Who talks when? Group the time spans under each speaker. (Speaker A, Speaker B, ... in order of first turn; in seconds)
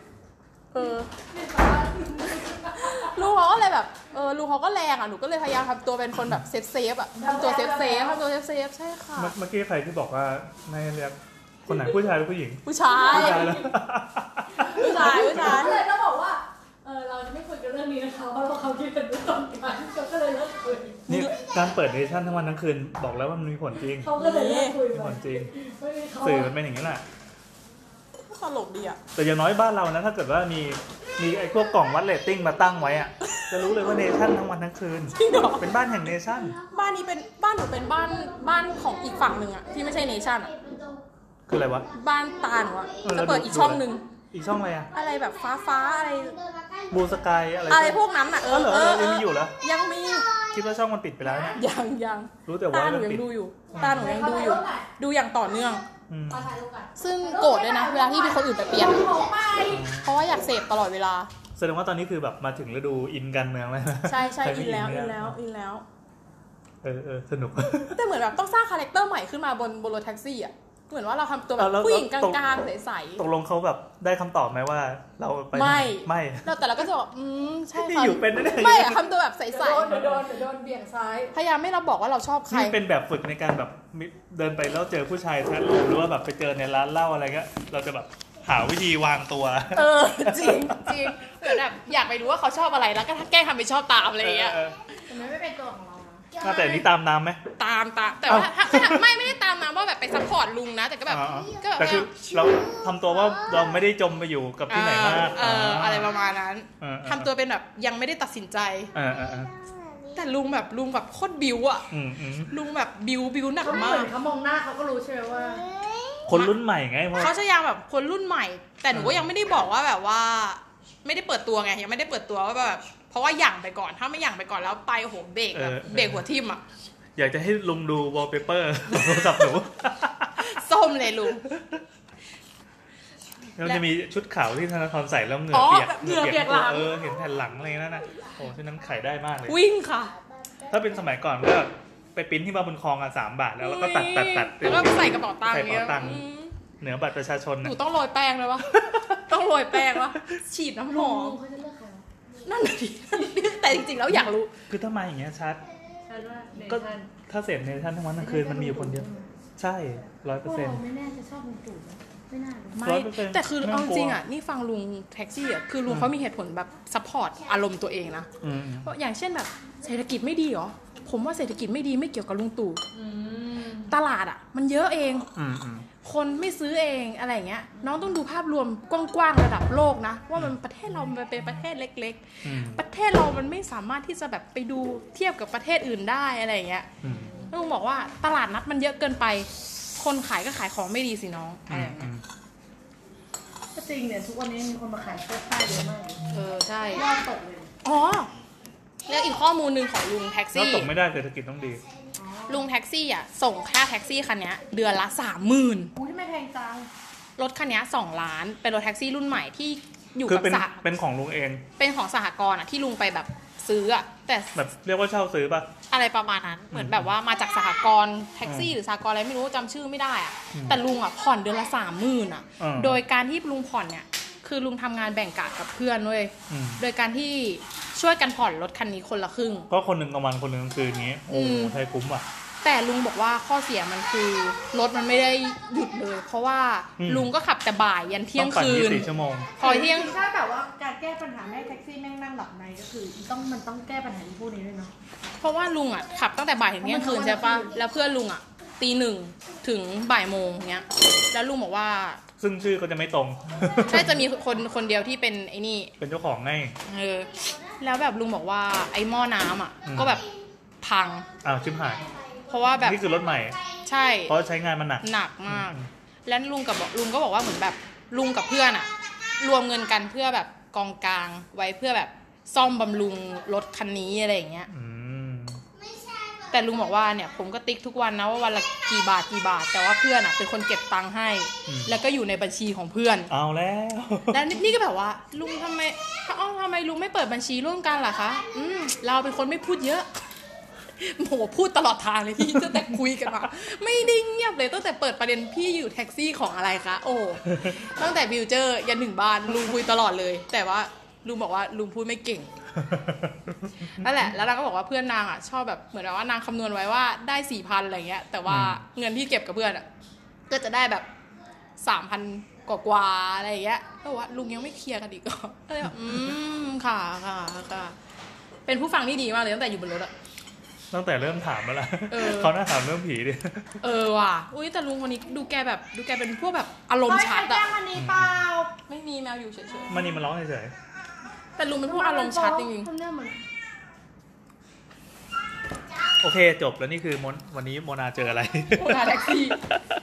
Speaker A: 0.7-1.1, 2.7-9.3, 12.7-13.5, 14.7-15.8, 21.1-21.4, 24.2-24.8, 28.3-29.0, 33.3-33.6, 35.1-35.7, 36.7-40.6, 41.9-44.1, 44.9-46.4, 47.7-50.3, 51.5-55.8, 57.0-59.1, 60.0-61.3, 64.0-65.8, 67.8-73.2, 75.5-80.2, 81.3-82.8, 89.7-94.6, 97.6-102.2, 104.7-108.9, 110.1-111.9, 112.5-114.1, 117.1-126.6, 130.4-131.4, 135.5-136.9, 139.5-140.2, 143.6-146.6, 147.6-151.4, 152.4-154.5, 162.8-168.3, 168.8-172.8, 173.9-175.3, 176.0-186.9, 187.5-192.1, 196.3-197.1, 197.8-198.3, 199.1-200.9, 202.5-205.9, 207.4-210.8, 211.8-214.5, 215.9-229.7, 231.3-231.8, 232.6-240.2, 245.4-252.2, 253.8-255.9, 256.9-260.3, 260.8-261.3, 262.4-263.0, 263.8-264.3, 265.0-274.7, 276.5-283.3, 284.3-290.1, 291.0-302.5, 304.0-309.9, 310.5-311.1, 311.8-318.0, 318.7-320.1, 322.1-322.6, 323.8-327.7, 328.9-330.0, 331.6-332.9, 338.7-339.6
Speaker B: 1.3-3.2, 7.2-8.2, 12.9-13.7, 14.6-21.1, 23.9-26.5, 51.2-51.5, 53.8-54.9, 56.3-59.9, 79.5-81.3, 95.1-96.3, 113.6-115.7, 150.9-152.1, 156.1-157.1, 158.2-159.3, 160.4-162.8, 172.9-173.9, 193.8-196.2, 196.9-197.7, 202.2-202.7, 206.0-206.9, 239.6-244.9, 246.8-247.7, 327.1-328.7, 331.9-333.4
Speaker C: 6.2-6.4, 9.2-15.5, 21.1-24.2, 24.9-25.5, 26.2-27.0, 29.2-36.6, 41.5-41.9, 43.0-44.9, 46.9-49.5, 50.5-51.6, 52.5-54.1, 56.1-56.5, 59.7-60.2, 61.6-65.3, 66.8-68.0, 71.6-72.4, 73.2-76.5, 77.8-79.0, 79.9-80.2, 82.5-91.2, 94.2-94.8, 96.4-97.4, 98.3-99.0, 101.1-106.1, 106.8-107.3, 109.0-109.5, 111.9-112.5, 116.3-117.3, 118.9-119.3, 125.5-126.2, 127.2-130.5, 133.6-139.6, 140.7-146.3, 146.8-147.8, 154.1-155.6, 156.7-159.1, 159.6-160.8, 162.8-164.2, 168.4-168.9, 175.4-175.9, 182.4-182.8, 187.0-187.3, 191.7-192.2, 200.5-201.8, 210.3-211.6, 214.6-215.7, 216.7-217.1, 218.4-218.7, 220.5-220.8, 222.6-223.0, 226.5-226.8, 229.7-232.2, 237.0-237.3, 238.4-239.6, 252.4-254.2, 256.0-256.8, 259.9-260.2, 261.4-262.1, 262.8-263.6, 264.3-265.9, 274.7-275.6, 281.7-282.0, 283.3-284.5, 292.5-292.9, 302.8-303.6, 308.5-308.8, 320.9-323.8, 327.9-328.4, 329.9-330.7, 336.2-339.4